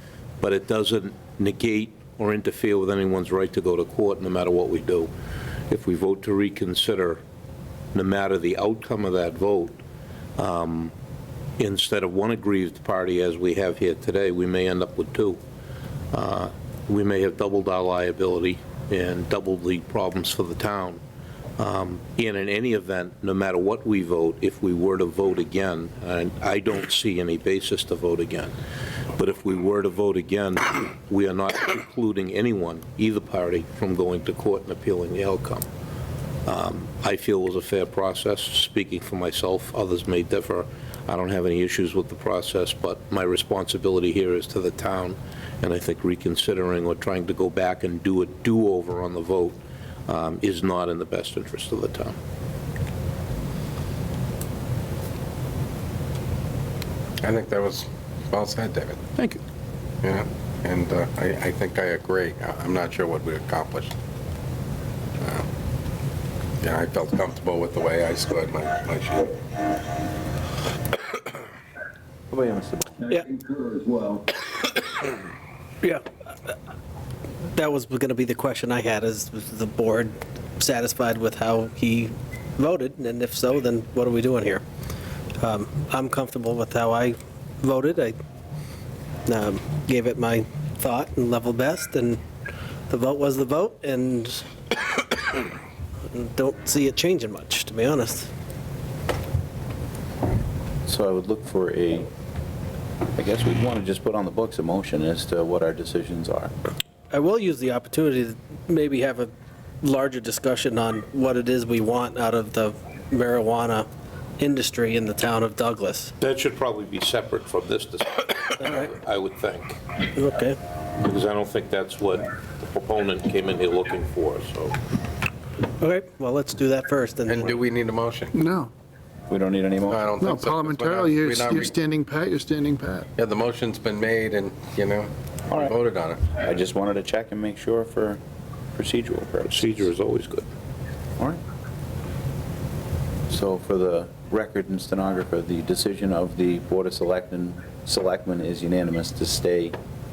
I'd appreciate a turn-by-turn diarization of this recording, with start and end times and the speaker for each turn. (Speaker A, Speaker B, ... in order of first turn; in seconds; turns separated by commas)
Speaker A: 0.4-5.1, Speaker A: 5.7-7.2, Speaker A: 7.9-9.8, Speaker A: 10.4-10.9, Speaker A: 11.6-15.4, Speaker A: 16.1-21.0, Speaker A: 21.6-28.5, Speaker A: 29.2-35.7, Speaker A: 36.5-52.2, Speaker B: 57.2-59.0, Speaker B: 60.0-64.0, Speaker B: 65.2-65.5, Speaker B: 66.6-69.4, Speaker C: 72.3-74.2, Speaker D: 77.6-84.6, Speaker D: 85.4-88.2, Speaker D: 89.3-92.2, Speaker D: 92.9-94.4, Speaker D: 96.1-98.3, Speaker C: 100.9-102.1, Speaker C: 103.2-106.5, Speaker D: 107.1-109.3, Speaker D: 109.8-113.9, Speaker D: 114.4-116.1, Speaker A: 116.2-119.8, Speaker D: 120.2-120.6, Speaker A: 121.0-124.8, Speaker D: 125.8-127.3, Speaker B: 127.3-128.3, Speaker E: 128.3-128.7, Speaker C: 129.3-130.1, Speaker B: 129.9-131.7, Speaker E: 130.2-133.1, Speaker B: 133.2-136.4, Speaker C: 136.3-138.2, Speaker C: 138.8-139.9, Speaker A: 139.5-140.5, Speaker C: 143.3-149.8